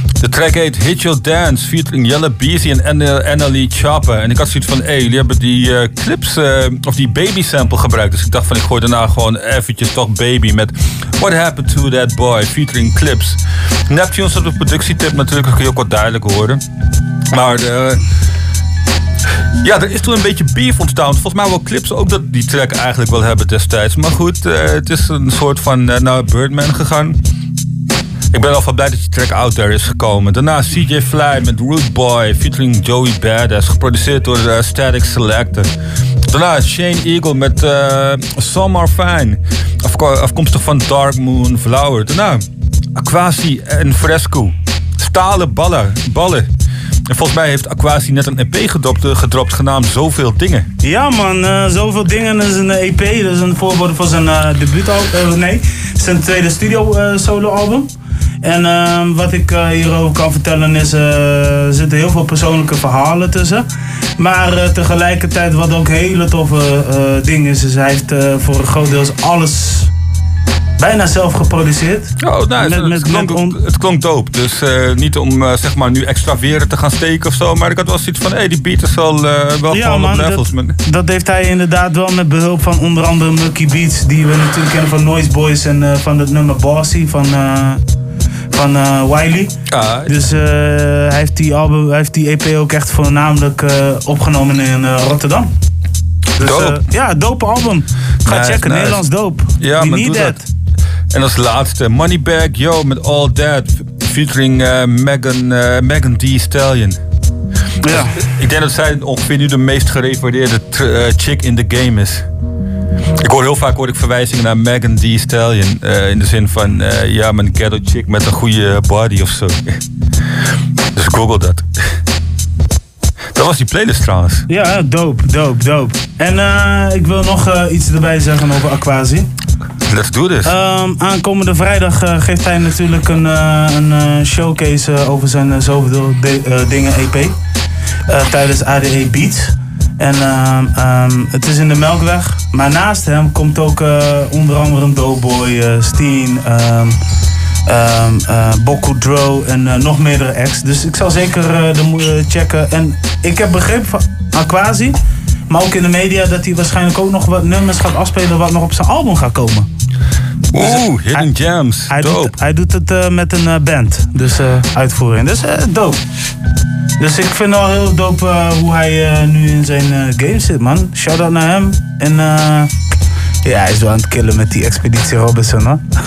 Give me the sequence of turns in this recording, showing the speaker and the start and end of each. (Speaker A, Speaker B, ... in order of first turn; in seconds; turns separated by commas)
Speaker A: 0.2-16.6, Speaker A: 17.3-18.0, Speaker A: 19.6-27.2, Speaker A: 28.3-35.7, Speaker A: 36.3-42.4, Speaker A: 43.0-46.5, Speaker A: 47.1-50.7, Speaker B: 50.8-57.9, Speaker B: 58.4-63.6, Speaker B: 64.2-69.9, Speaker B: 70.8-73.6, Speaker A: 72.2-80.7, Speaker B: 79.7-87.8, Speaker B: 88.5-89.5, Speaker A: 89.7-90.3, Speaker B: 90.1-95.5, Speaker B: 96.4-100.5, Speaker A: 96.4-96.8, Speaker A: 98.2-99.0, Speaker A: 99.6-100.4, Speaker A: 101.1-107.0, Speaker B: 107.8-108.2, Speaker A: 107.9-112.2, Speaker A: 113.2-119.8, Speaker A: 120.9-121.6, Speaker A: 123.3-124.5, Speaker B: 124.5-129.3, Speaker A: 129.9-130.5, Speaker B: 130.4-137.3, Speaker B: 138.1-147.0, Speaker B: 147.7-154.9, Speaker B: 155.5-159.7, Speaker A: 160.5-162.3, Speaker B: 160.6-161.3, Speaker B: 161.9-166.0, Speaker B: 167.0-172.7, Speaker B: 173.4-175.8